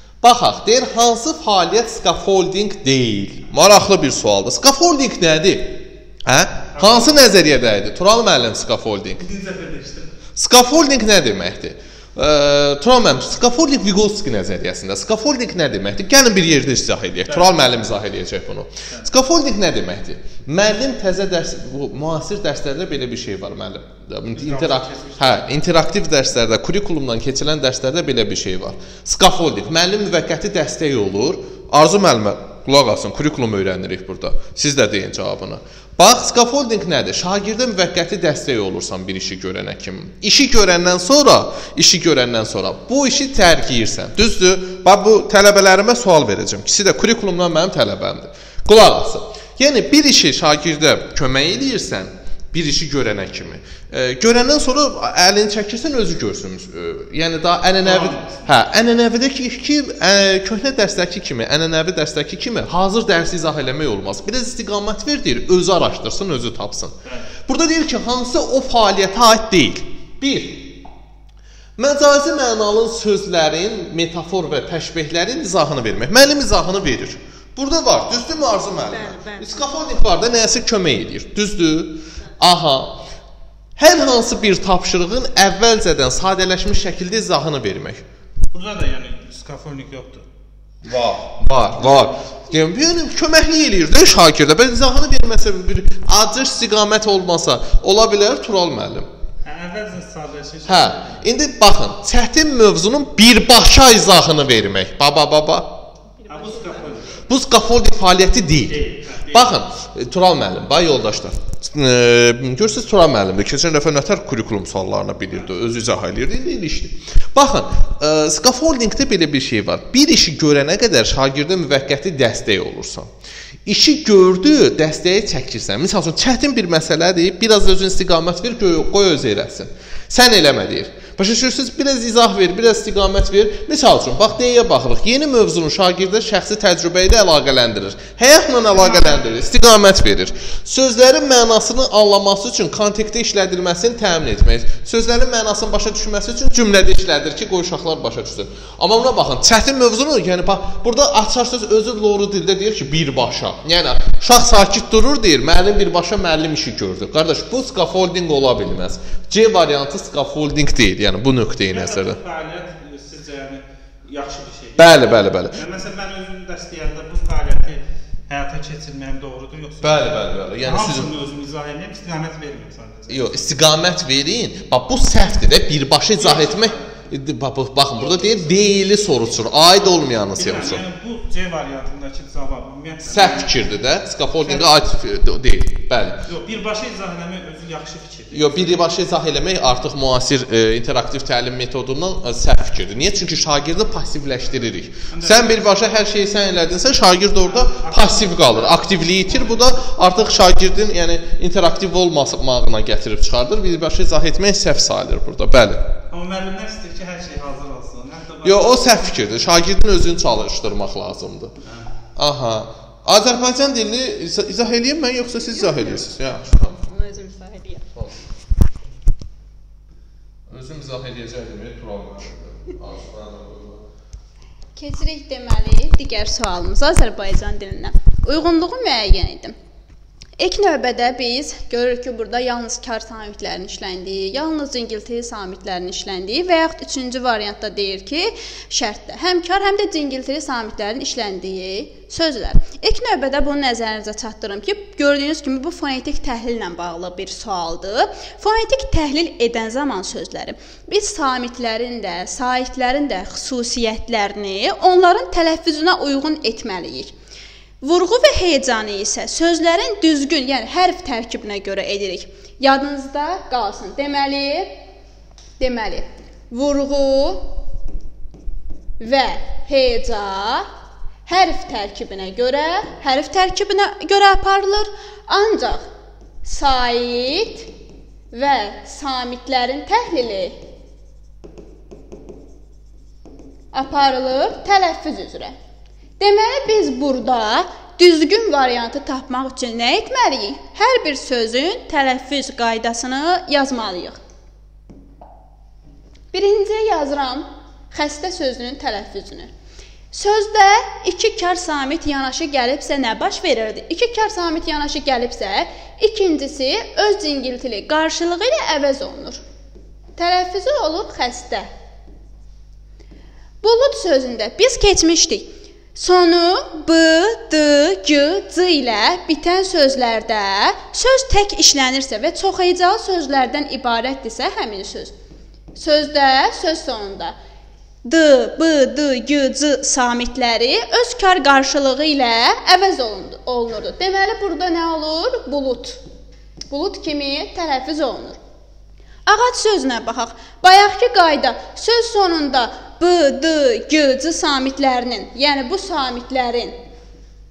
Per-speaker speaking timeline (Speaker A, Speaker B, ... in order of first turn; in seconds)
Speaker A: 0.2-9.2, 10.3-67.0, 67.5-70.8, 71.8-83.0, 83.8-88.0, 90.8-99.1, 100.6-105.8, 107.3-123.1, 123.6-162.2, 164.8-165.6, 169.8-171.1, 173.1-180.8, 183.1-186.2, 188.3-205.9, 208.4-211.5, 212.2-216.8, 220.5-223.8
Speaker B: 6.8-7.1, 9.2-10.1, 17.3-17.6, 24.4-25.5, 57.8-58.5, 88.5-90.2, 91.8-92.1, 99.4-101.2, 106.2-107.2, 108.7-109.5, 138.8-139.3, 161.7-173.3, 176.2-176.8, 178.1-178.4, 180.3-183.5, 184.4-184.7, 186.3-188.8, 195.1-195.7, 197.4-199.6, 206.1-209.3
Speaker C: 215.7-216.0, 216.9-217.8, 224.8-229.5, 230.4-257.1, 257.8-264.7, 265.6-267.6, 269.0-270.7, 271.2-275.8, 276.4-277.7, 278.3-280.6, 283.7-285.5, 286.2-294.2, 296.3-299.5, 300.1-309.4, 310.2-311.7, 313.6-325.1, 325.8-327.3, 328.0-336.0, 336.7-338.4, 339.2-346.7